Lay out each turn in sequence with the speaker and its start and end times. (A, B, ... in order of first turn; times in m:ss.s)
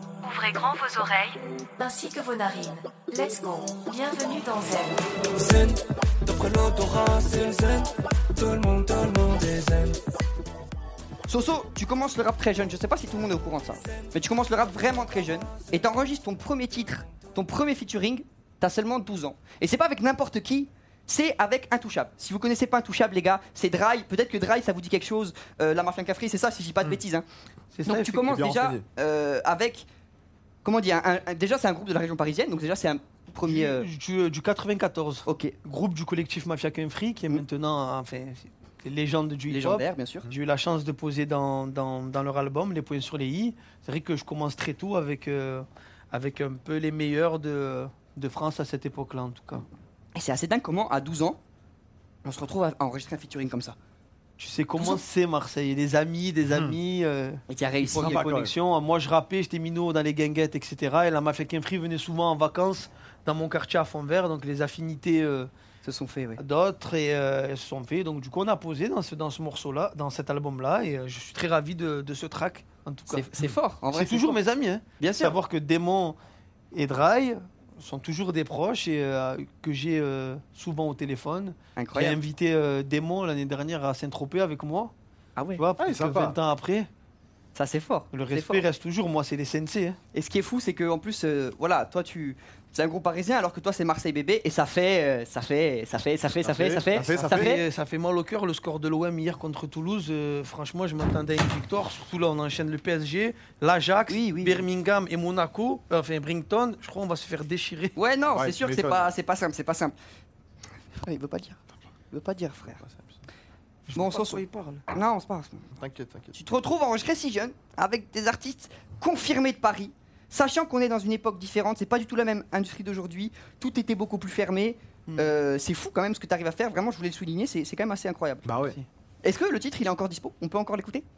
0:00.2-0:05.0 A
0:05.4-0:10.0 B
0:11.3-0:27.3 C
0:27.7-0:28.3 D
0:27.8-0:29.9 C
0:28.2-0:28.8 E
0:30.6-0:33.9 C
0:33.4-0:49.7 D
0:35.3-0:35.6 C
0:39.5-0:40.3 C
0:50.1-0:51.4 C
0:52.2-0:53.8 C
0:54.4-1:05.5 D
0:54.8-0:55.0 C
0:56.5-0:56.8 E
0:57.5-0:58.2 C
0:58.0-0:58.5 E
1:05.8-1:06.4 C
1:06.4-1:16.2 D
1:13.1-1:14.4 C
1:15.0-1:15.4 C
1:16.7-1:24.9 D
1:21.8-1:22.2 C
1:25.4-1:25.6 C
1:25.6-1:26.9 D
1:25.8-1:26.4 E
1:27.6-1:28.7 C
1:28.1-1:30.0 D
1:30.1-1:37.6 C
1:36.4-1:37.6 E
1:37.0-1:48.0 D
1:44.1-1:44.6 C
1:48.0-1:49.9 C
1:48.3-1:49.1 E
1:51.0-1:51.6 C
1:52.1-1:52.8 C
1:52.8-1:53.1 E
1:53.9-1:54.8 D
1:53.9-1:55.6 C
1:55.7-1:56.3 E
1:56.3-2:08.5 C
2:08.4-2:08.8 E
2:09.2-2:11.0 C